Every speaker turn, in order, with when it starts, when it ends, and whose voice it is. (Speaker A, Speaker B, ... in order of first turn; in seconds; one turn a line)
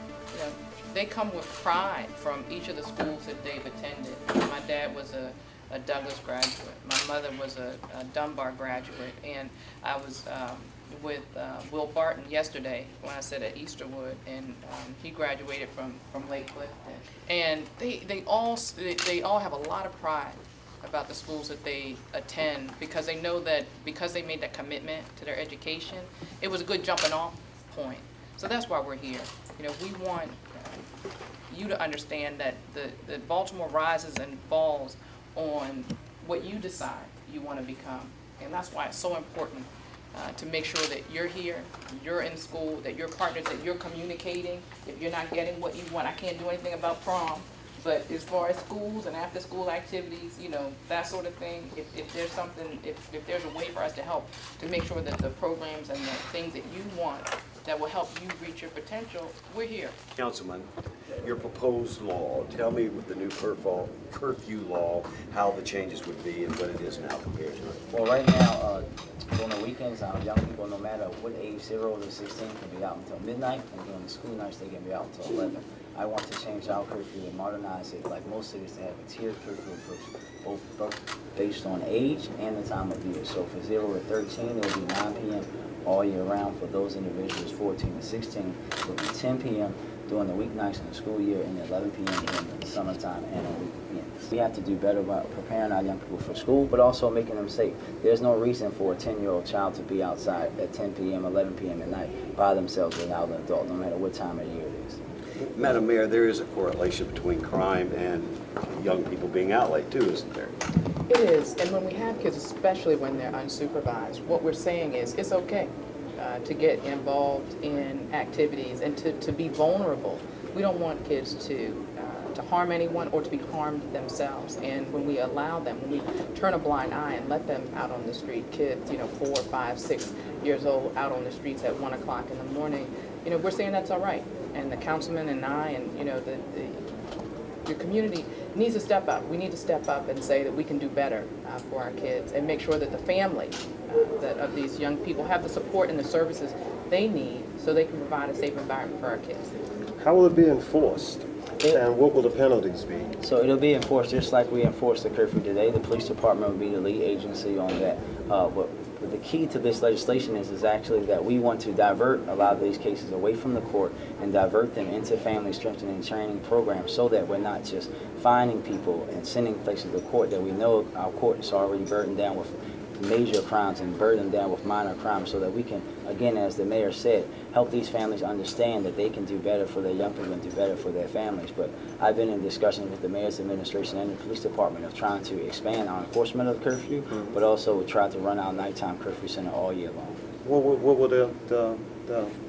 Speaker A: 0.3-30.9
Speaker A: 31.5-59.9
Speaker B: 60.1-60.7
Speaker B: 61.2-67.8
Speaker C: 67.9-105.0
Speaker B: 105.5-110.5
Speaker A: 111.1-136.8
Speaker A: 137.7-149.6
Speaker D: 150.0-153.1
Speaker C: 153.2-190.2
Speaker D: 187.1-187.4
Speaker D: 190.4-192.3